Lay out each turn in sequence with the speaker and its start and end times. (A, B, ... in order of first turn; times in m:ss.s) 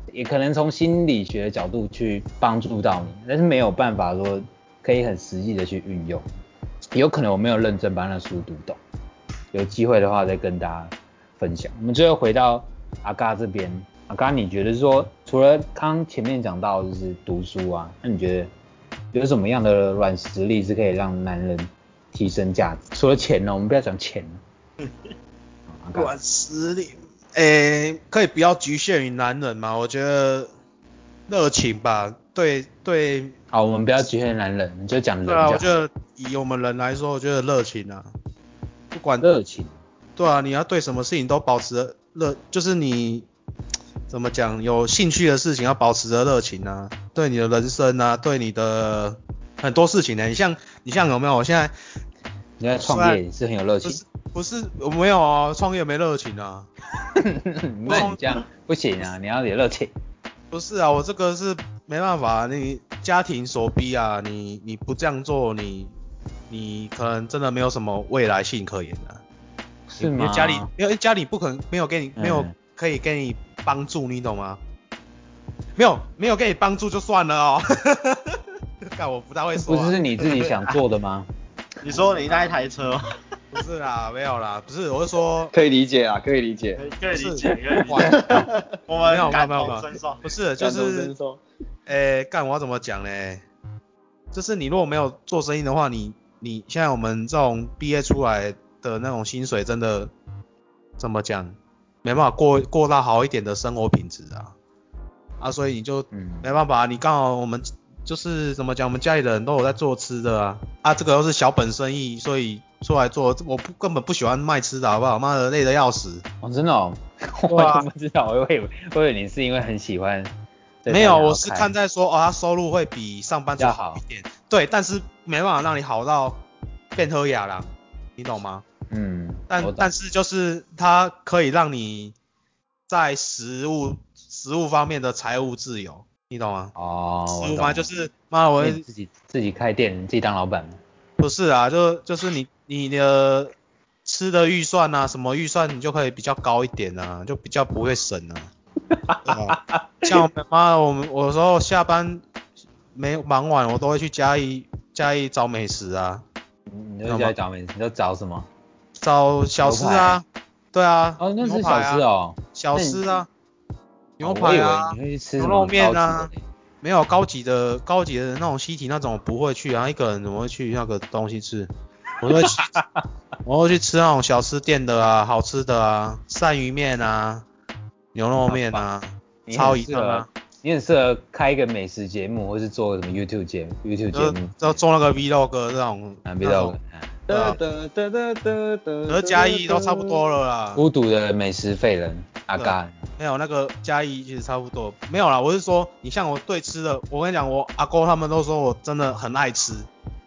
0:00.1-0:06.2 A
0:06.9-0:08.8 A
0:09.5-0:18.5 A
0:19.1-0:24.4 A
0:25.8-0:26.1 A
0:25.9-0:30.5 B
0:31.3-0:33.3 B
0:33.5-0:35.7 A
0:35.3-0:38.1 B
0:38.9-0:39.3 B
0:39.2-0:39.7 A
0:40.2-0:43.3 B
0:44.1-0:51.7 B
0:52.6-0:54.0 A
0:52.8-0:53.2 B
0:53.8-0:56.7 B
0:57.0-0:59.9 A
0:57.8-0:58.4 B
1:00.5-1:05.9 B
1:06.5-1:09.2 B
1:09.9-1:10.7 A
1:10.0-1:14.6 B
1:12.2-1:12.5 A
1:15.8-1:18.4 B
1:18.9-1:20.6 B
1:19.6-1:21.3 A
1:21.8-1:23.2 C
1:23.5-1:25.5 B
1:25.5-1:26.8 D
1:26.8-1:30.2 C
1:27.1-1:28.5 B
1:28.0-1:28.5 D
1:29.0-1:31.1 B
1:30.6-1:31.4 D
1:31.9-1:33.4 B
1:34.3-1:40.1 B
1:41.0-1:44.5 B
1:45.4-1:56.2 B
1:46.1-1:46.5 A
1:56.4-2:00.3 A
1:57.5-1:57.9 B
2:00.8-2:01.7 A
2:00.9-2:06.4 B
2:03.6-2:04.0 A
2:06.9-2:08.6 B
2:08.9-2:09.9 A
2:09.5-2:12.1 B
2:12.9-2:16.7 B
2:16.7-2:17.9 A
2:17.3-2:18.8 B
2:18.6-2:20.8 A
2:21.2-2:23.5 B
2:24.0-2:28.5 B
2:28.9-2:30.1 A
2:29.2-2:32.2 B
2:32.9-2:36.2 B
2:36.7-2:38.5 A
2:37.0-2:37.3 B
2:39.0-2:43.3 B
2:39.6-2:40.2 A
2:41.2-2:43.0 A
2:44.2-2:46.3 B
2:44.2-2:46.4 A
2:46.8-2:52.7 B
2:52.5-2:52.8 A
2:53.4-2:57.4 B
2:58.1-3:00.3 B
2:58.4-2:58.8 A
2:59.5-3:04.8 A
3:04.1-3:06.7 B
3:06.2-3:07.2 A
3:07.3-3:10.2 D
3:07.3-3:07.6 B
3:09.1-3:10.8 B
3:10.8-3:13.0 A
3:12.5-3:19.9 B